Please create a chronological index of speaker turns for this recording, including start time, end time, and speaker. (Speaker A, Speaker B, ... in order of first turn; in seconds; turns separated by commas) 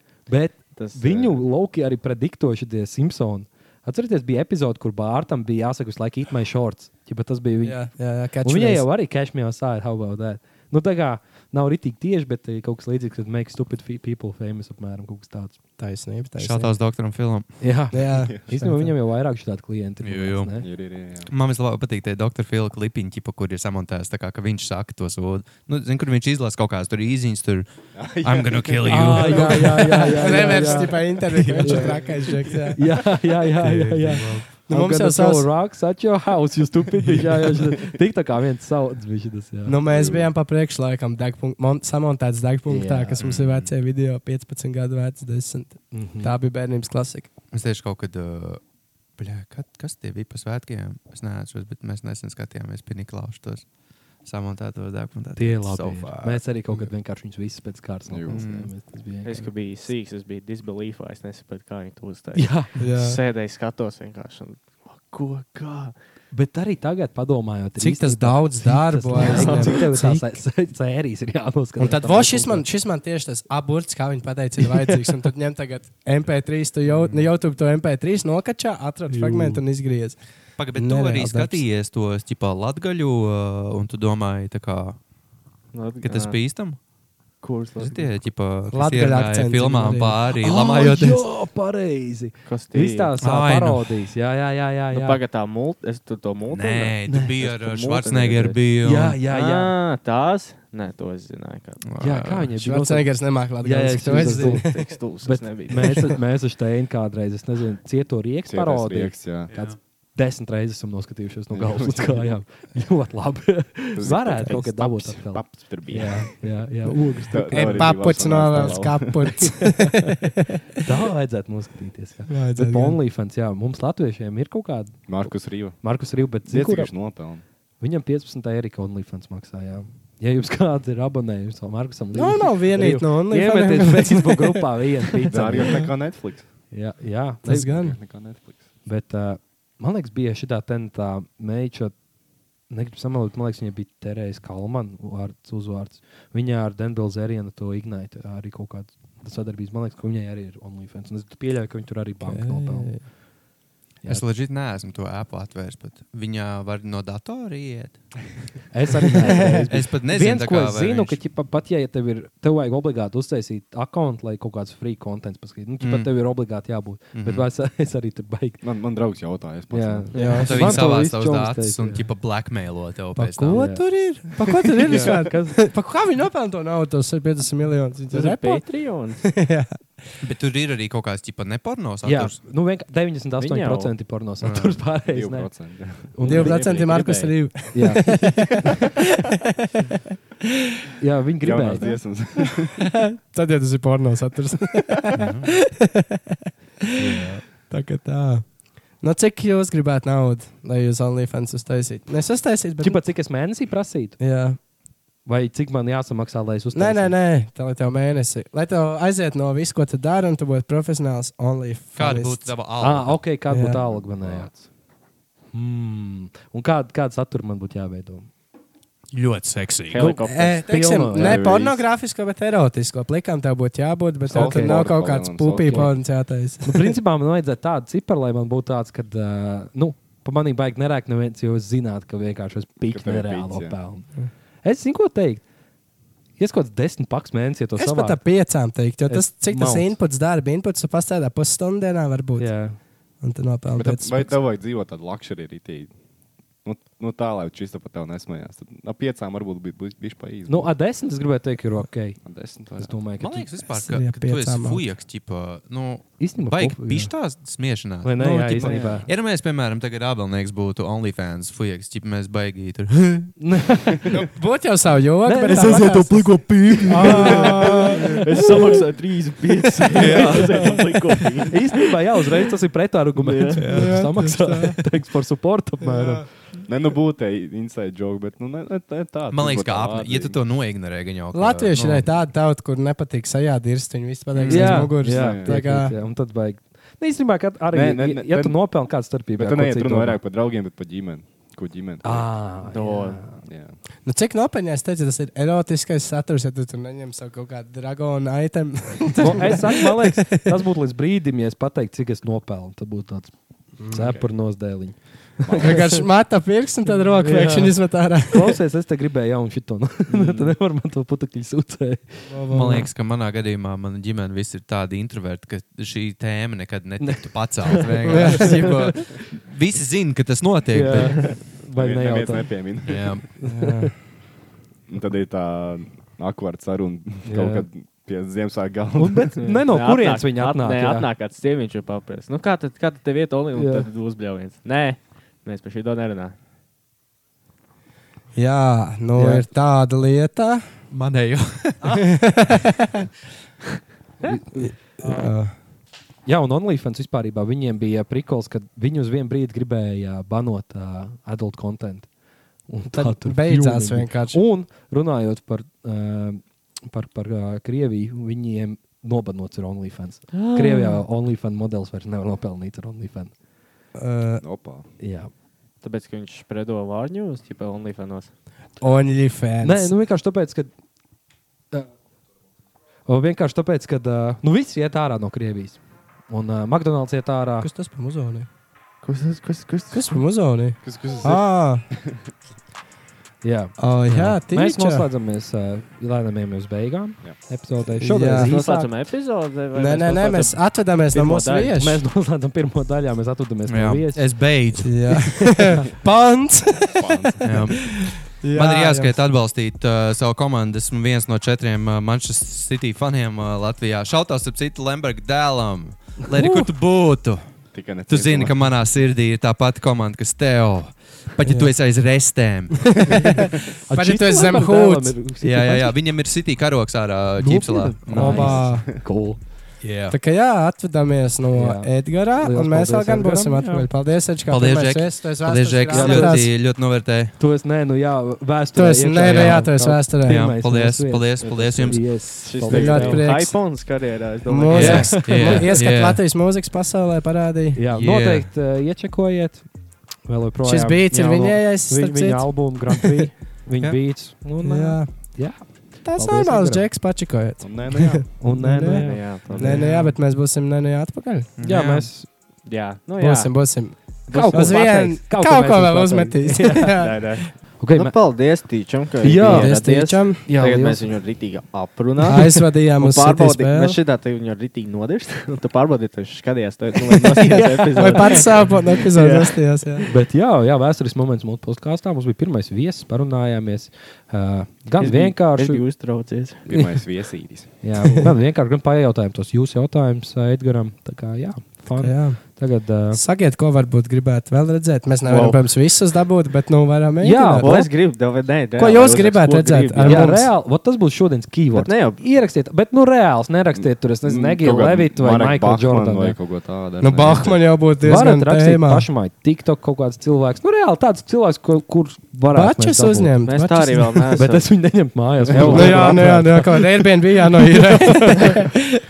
Speaker A: 0.3-15.6, Speaker B: 0.7-1.4, Speaker C: 7.6-8.8, Speaker C: 15.8-16.7, Speaker D: 16.4-17.6, Speaker A: 17.6-20.7, Speaker C: 17.9-18.9, Speaker D: 20.0-20.6, Speaker E: 20.6-21.3, Speaker D: 21.2-31.9, Speaker E: 27.9-29.4, Speaker A: 28.8-32.0, Speaker C: 29.3-32.8, Speaker A: 32.7-39.8, Speaker D: 33.6-34.5, Speaker C: 34.7-35.5, Speaker C: 39.6-47.3, Speaker E: 39.9-40.3, Speaker A: 42.7-43.2, Speaker D: 43.2-43.7, Speaker A: 45.9-46.3, Speaker D: 47.5-48.6, Speaker D: 49.1-56.9, Speaker A: 55.4-59.5, Speaker E: 58.1-58.6, Speaker D: 58.3-58.7, Speaker B: 59.2-66.0, Speaker A: 62.3-62.8, Speaker C: 62.8-63.2, Speaker A: 66.3-72.7, Speaker C: 67.8-70.4, Speaker B: 69.2-69.8, Speaker C: 71.8-81.6, Speaker A: 74.6-75.2, Speaker A: 79.1-79.6, Speaker D: 80.6-85.0, Speaker B: 85.7-86.4, Speaker D: 86.0-86.8, Speaker B: 87.4-87.9, Speaker D: 87.8-91.2, Speaker C: 88.7-90.2, Speaker A: 90.4-95.2, Speaker B: 92.4-93.1, Speaker D: 93.2-94.0, Speaker B: 94.9-98.6, Speaker D: 96.5-99.2, Speaker A: 98.8-99.7, Speaker B: 99.3-101.9, Speaker D: 101.8-102.5, Speaker A: 102.0-120.0, Speaker C: 102.6-105.0, Speaker B: 104.1-106.1, Speaker E: 108.5-109.5, Speaker D: 109.5-109.8, Speaker E: 111.5-112.3, Speaker E: 113.9-119.6, Speaker C: 117.5-120.2, Speaker A: 120.8-126.9, Speaker C: 122.3-123.0, Speaker E: 125.1-127.4, Speaker A: 127.8-135.9, Speaker C: 132.1-134.7, Speaker E: 135.3-136.5, Speaker A: 136.7-137.8, Speaker C: 137.4-138.0, Speaker E: 137.7-138.7, Speaker A: 138.8-142.0, Speaker A: 142.7-153.2, Speaker C: 152.2-153.0, Speaker D: 154.0-158.5, Speaker A: 158.7-168.6, Speaker C: 159.3-159.6, Speaker D: 159.7-161.2, Speaker D: 165.8-166.1, Speaker D: 167.1-167.5, Speaker E: 168.6-170.1, Speaker A: 169.7-172.1, Speaker B: 170.1-170.5, Speaker C: 170.1-170.8, Speaker D: 170.4-173.6, Speaker C: 173.2-179.8, Speaker A: 173.5-175.7, Speaker B: 178.1-179.3, Speaker D: 180.2-182.4, Speaker A: 182.0-186.6, Speaker B: 183.4-183.9, Speaker D: 184.4-184.8, Speaker E: 185.0-186.2, Speaker B: 186.2-187.5, Speaker C: 186.2-188.7, Speaker A: 187.7-188.6, Speaker A: 191.0-192.0, Speaker E: 191.4-192.9, Speaker C: 192.8-196.2, Speaker D: 195.2-195.5, Speaker A: 197.0-197.4, Speaker C: 197.5-203.0, Speaker A: 202.8-204.2, Speaker C: 204.2-204.6, Speaker A: 205.2-207.2, Speaker C: 206.7-212.5, Speaker D: 211.9-213.2, Speaker A: 212.8-214.7, Speaker C: 213.5-213.8, Speaker E: 213.9-214.6, Speaker A: 215.5-218.3, Speaker D: 219.1-220.1, Speaker B: 219.9-220.6, Speaker A: 220.0-221.4, Speaker C: 220.3-226.9, Speaker E: 221.1-221.8, Speaker A: 224.3-224.9, Speaker E: 224.3-225.9, Speaker A: 225.7-226.0, Speaker A: 226.6-234.1, Speaker E: 232.9-233.8, Speaker A: 234.6-235.4, Speaker A: 236.4-238.3, Speaker C: 237.8-244.4, Speaker A: 239.1-240.0, Speaker A: 242.4-242.8, Speaker E: 243.8-245.9, Speaker E: 246.6-250.7, Speaker A: 250.4-252.2, Speaker E: 252.2-253.0, Speaker A: 252.7-253.6, Speaker D: 253.2-263.3, Speaker C: 253.7-254.8, Speaker A: 256.2-257.1, Speaker A: 258.0-259.1, Speaker E: 258.6-259.1, Speaker A: 263.4-264.1, Speaker C: 264.1-268.0, Speaker A: 265.2-268.7, Speaker B: 267.0-271.9, Speaker D: 269.9-270.7, Speaker A: 270.1-270.3, Speaker A: 271.5-276.3, Speaker B: 273.2-274.1, Speaker C: 273.6-274.8, Speaker C: 275.8-276.2, Speaker E: 276.7-280.4, Speaker D: 279.3-282.1, Speaker C: 281.3-285.9, Speaker D: 284.3-284.9, Speaker A: 284.5-290.2, Speaker E: 285.0-285.5, Speaker E: 287.7-292.5, Speaker A: 292.0-293.4, Speaker B: 292.6-293.2, Speaker E: 293.4-293.8, Speaker C: 294.0-300.4, Speaker A: 299.2-306.0, Speaker E: 304.0-304.2, Speaker E: 305.4-306.0, Speaker C: 305.6-308.6, Speaker A: 307.2-312.8, Speaker B: 310.1-310.5, Speaker C: 312.3-312.8, Speaker D: 312.5-321.4, Speaker A: 317.0-319.0, Speaker C: 318.1-318.9, Speaker A: 320.7-323.9, Speaker E: 321.3-323.1, Speaker D: 322.9-323.3, Speaker C: 323.4-323.9, Speaker E: 324.9-329.3, Speaker A: 327.2-327.7, Speaker A: 328.9-331.1, Speaker B: 329.4-336.3, Speaker A: 333.5-333.9, Speaker C: 338.3-340.7, Speaker A: 339.1-339.5, Speaker D: 340.9-342.2, Speaker C: 342.1-342.6, Speaker A: 344.2-345.1, Speaker C: 344.6-345.5, Speaker A: 346.2-352.1, Speaker A: 352.6-363.3, Speaker C: 352.9-354.4, Speaker B: 360.3-361.0, Speaker C: 363.9-364.4, Speaker E: 364.4-364.8, Speaker A: 365.0-365.3, Speaker B: 365.8-368.3, Speaker C: 368.8-369.9, Speaker A: 369.6-370.7, Speaker A: 373.1-377.7, Speaker C: 377.6-378.5, Speaker B: 379.0-380.2, Speaker C: 379.9-381.9, Speaker E: 380.8-381.4, Speaker A: 383.4-388.9, Speaker C: 383.8-385.1, Speaker C: 388.0-388.5, Speaker B: 388.3-391.7, Speaker C: 389.7-392.0, Speaker A: 391.7-395.8, Speaker D: 393.6-395.5, Speaker C: 394.8-397.1, Speaker E: 396.9-397.5, Speaker D: 397.4-413.4, Speaker C: 398.4-399.1, Speaker A: 406.3-406.7, Speaker E: 407.7-408.6, Speaker C: 411.4-411.7, Speaker A: 413.9-416.0, Speaker C: 413.9-415.1, Speaker D: 415.4-418.7, Speaker A: 417.4-419.4, Speaker C: 418.1-418.9, Speaker E: 418.3-419.0, Speaker D: 419.8-420.1, Speaker C: 420.1-426.5, Speaker A: 421.5-423.9, Speaker D: 424.5-427.4, Speaker A: 425.9-426.5, Speaker A: 427.4-433.3, Speaker C: 428.7-430.4, Speaker D: 429.2-429.6, Speaker D: 430.2-432.3, Speaker B: 432.4-435.3, Speaker C: 432.6-433.8, Speaker C: 434.4-437.8, Speaker A: 434.7-435.8, Speaker D: 434.7-436.2, Speaker A: 437.7-439.7, Speaker D: 437.9-438.5, Speaker A: 440.2-446.9, Speaker C: 440.6-443.3, Speaker C: 443.8-445.4, Speaker C: 446.0-451.5, Speaker E: 447.6-448.3, Speaker A: 448.4-450.1, Speaker B: 448.9-449.9, Speaker D: 451.6-452.1, Speaker A: 451.6-452.3, Speaker B: 452.6-453.7, Speaker C: 453.2-457.1, Speaker A: 454.3-458.2, Speaker B: 454.4-454.8, Speaker B: 456.9-470.0, Speaker A: 459.2-461.2, Speaker C: 459.4-460.4, Speaker C: 462.3-464.0, Speaker A: 467.4-468.6, Speaker C: 467.5-470.1, Speaker A: 470.0-475.8, Speaker B: 474.9-476.6, Speaker E: 476.6-477.7, Speaker A: 476.7-477.0, Speaker A: 477.8-483.2, Speaker C: 482.0-487.8, Speaker B: 485.2-485.8, Speaker A: 487.2-487.9, Speaker B: 487.6-490.4, Speaker C: 488.8-490.5, Speaker A: 490.0-496.4, Speaker B: 491.7-492.2, Speaker E: 493.8-497.7, Speaker C: 497.0-499.1, Speaker A: 498.0-503.4, Speaker C: 502.5-504.2, Speaker B: 503.4-506.4, Speaker A: 504.3-508.4, Speaker C: 505.6-508.8